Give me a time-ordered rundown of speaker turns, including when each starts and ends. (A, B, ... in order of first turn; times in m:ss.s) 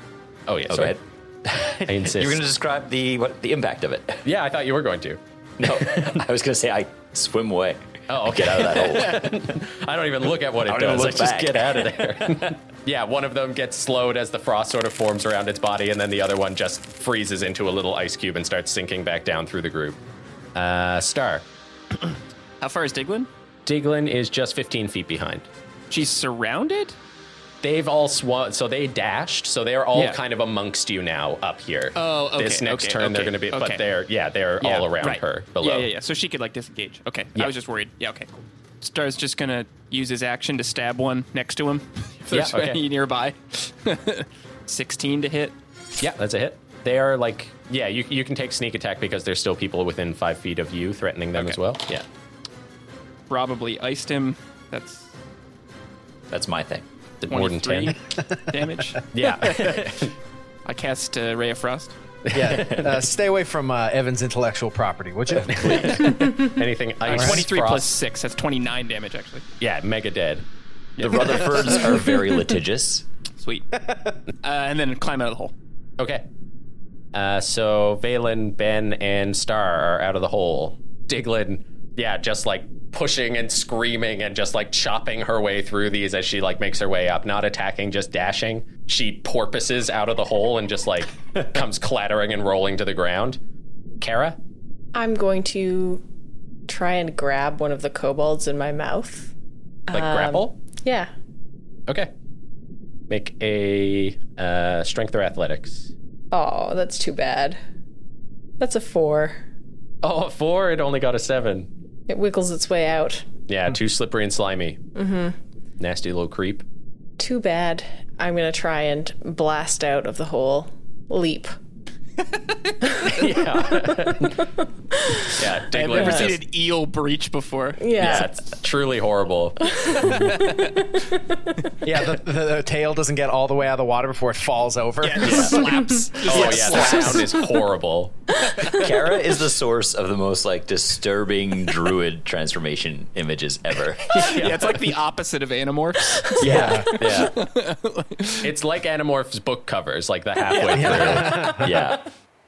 0:00.5-0:01.0 A
0:00.7-0:04.2 B
0:01.8-0:02.4 A
0:04.2-0:06.2 A
0:05.6-0:09.4 B
0:08.1-0:20.0 A
0:10.6-0:12.6 B
0:20.5-0:21.4 A
0:22.6-0:23.3 C
0:23.6-0:25.5 A
0:25.9-0:27.0 C
0:27.6-0:35.9 A
0:29.9-0:30.2 C
0:31.9-0:33.8 C
0:34.6-0:45.6 C
0:42.3-0:42.8 A
0:46.0-0:52.0 A
0:53.3-0:55.1 C
0:56.3-0:56.8 B
0:57.2-0:57.9 A
0:57.3-0:58.0 C
0:58.5-0:59.9 C
0:59.1-1:00.1 A
1:00.6-1:02.0 C
1:02.2-1:02.9 A
1:02.3-1:06.0 D
1:05.5-1:07.9 A
1:05.5-1:05.9 B
1:07.0-1:09.4 C
1:07.1-1:07.4 D
1:09.6-1:10.4 A
1:11.0-1:11.8 C
1:11.0-1:11.5 A
1:11.0-1:13.0 B
1:13.4-1:13.7 C
1:13.9-1:14.1 D
1:14.4-1:15.5 C
1:16.0-1:16.2 A
1:17.1-1:33.4 A
1:34.0-1:34.4 A
1:34.9-1:36.0 E
1:36.7-1:39.3 E
1:39.9-1:41.1 E
1:39.9-1:40.5 A
1:43.1-1:45.9 A
1:46.3-1:47.6 E
1:48.6-1:49.4 E
1:50.0-1:51.7 A
1:52.1-1:53.2 E
1:53.5-1:54.8 A
1:55.0-1:55.4 E
1:55.8-1:56.6 A
1:57.2-2:01.5 E
2:03.0-2:04.4 A
2:04.9-2:05.3 E
2:05.3-2:06.4 A
2:05.7-2:08.2 C
2:06.0-2:06.3 E
2:07.8-2:08.3 E
2:08.0-2:09.6 A
2:09.7-2:10.2 E
2:10.0-2:10.3 D
2:10.2-2:10.7 C
2:11.0-2:11.5 E
2:11.8-2:15.7 D
2:15.0-2:17.4 C
2:15.2-2:15.6 A
2:16.2-2:18.2 A
2:16.4-2:17.2 E
2:18.7-2:24.2 B
2:24.1-2:24.8 A
2:24.2-2:28.5 C
2:26.4-2:26.8 B
2:26.4-2:26.9 D
2:26.9-2:27.3 A
2:28.4-2:31.6 A
2:30.5-2:31.4 C
2:30.7-2:31.8 D
2:31.6-2:32.0 B